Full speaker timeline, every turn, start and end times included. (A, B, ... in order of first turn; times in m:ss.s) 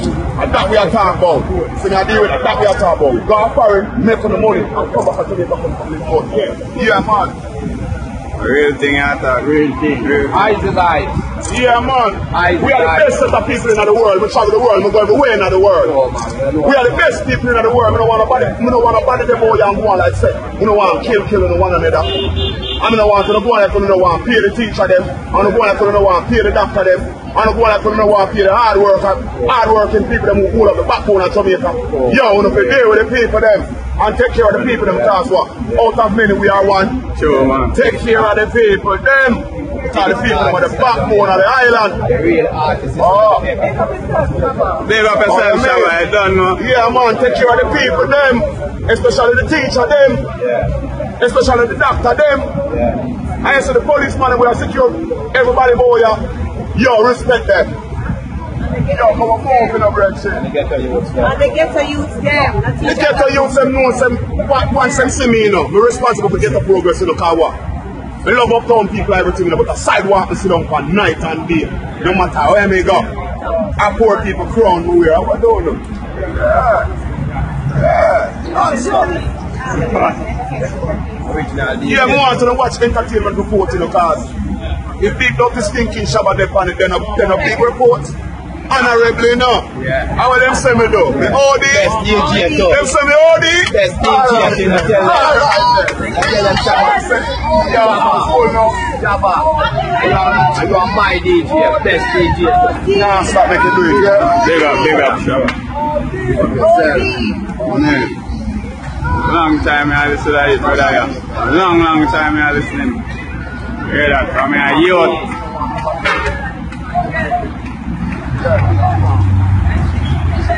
0:00.4-0:07.3 A
0:08.4-0:10.5 B
0:10.0-0:11.2 C
0:11.4-0:15.9 A
0:12.3-0:13.2 C
0:15.8-0:17.2 C
0:16.6-0:22.2 A
0:22.8-0:37.0 A
0:32.0-0:32.8 C
0:34.7-0:35.1 C
0:37.1-0:37.8 B
0:37.7-0:42.0 A
0:39.9-0:41.4 C
0:42.0-0:44.7 C
0:43.0-0:43.4 A
0:44.0-0:44.8 D
0:44.8-0:46.6 B
0:45.2-0:46.0 A
0:46.6-0:50.3 A
0:50.4-0:50.7 C
0:51.2-0:52.5 A
0:52.7-0:53.0 C
0:53.4-0:56.2 A
0:56.7-0:57.7 A
0:58.8-1:00.4 A
1:00.3-1:01.5 C
1:01.3-1:03.3 D
1:02.8-1:07.6 A
1:08.2-1:13.1 A
1:13.8-1:16.9 A
1:18.0-1:19.2 A
1:18.3-1:19.1 C
1:19.8-1:20.2 B
1:21.1-1:22.3 C
1:21.8-1:24.3 A
1:25.0-1:28.1 A
1:28.7-1:38.9 A
1:29.8-1:30.1 C
1:31.1-1:32.9 C
1:33.7-1:37.1 C
1:37.0-1:37.7 D
1:37.7-1:42.9 C
1:39.7-1:40.1 D
1:42.4-1:43.5 D
1:42.9-1:45.0 A
1:44.4-1:45.6 B
1:46.2-1:47.2 C
1:46.6-1:47.6 D
1:47.6-1:48.1 B
1:49.2-1:53.0 B
1:53.8-1:55.3 B
1:58.7-1:59.0 A